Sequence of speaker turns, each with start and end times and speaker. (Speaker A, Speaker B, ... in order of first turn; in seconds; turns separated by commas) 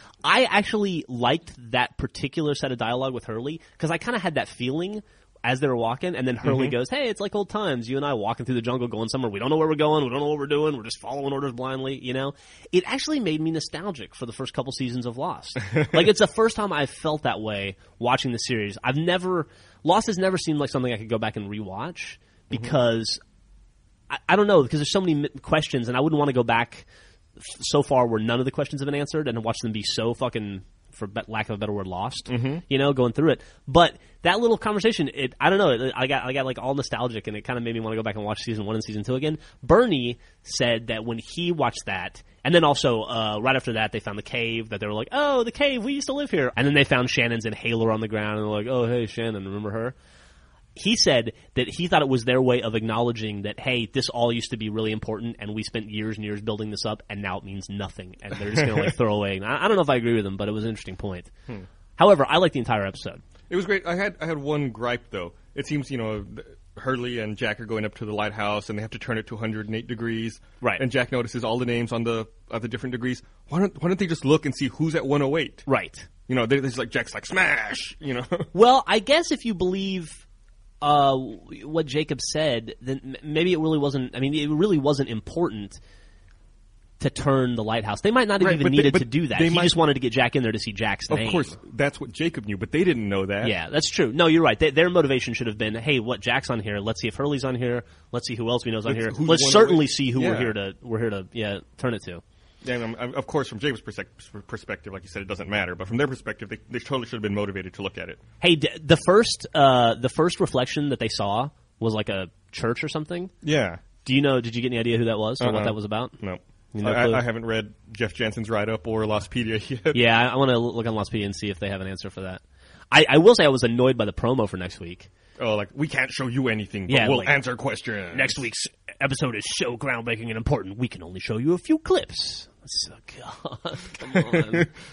Speaker A: 0.2-23.2, Speaker B: 6.4-6.7, Speaker A: 24.1-26.9, Speaker A: 27.4-50.0, Speaker B: 32.3-32.6, Speaker A: 50.8-61.3, Speaker B: 58.5-58.9, Speaker A: 62.0-63.2, Speaker B: 63.5-75.6, Speaker A: 75.7-76.1, Speaker B: 76.3-78.5, Speaker A: 78.5-80.2, Speaker A: 80.8-85.8, Speaker A: 87.0-91.6, Speaker B: 88.4-89.8, Speaker B: 91.1-93.5, Speaker A: 93.4-102.2, Speaker B: 98.8-100.5, Speaker B: 102.6-108.2, Speaker A: 108.4-113.3, Speaker B: 113.4-113.8, Speaker A: 114.0-116.2, Speaker B: 115.4-120.0, Speaker A: 116.7-117.2, Speaker A: 119.9-125.1, Speaker B: 125.4-128.4, Speaker A: 126.9-127.4, Speaker A: 128.1-134.7, Speaker B: 134.0-134.7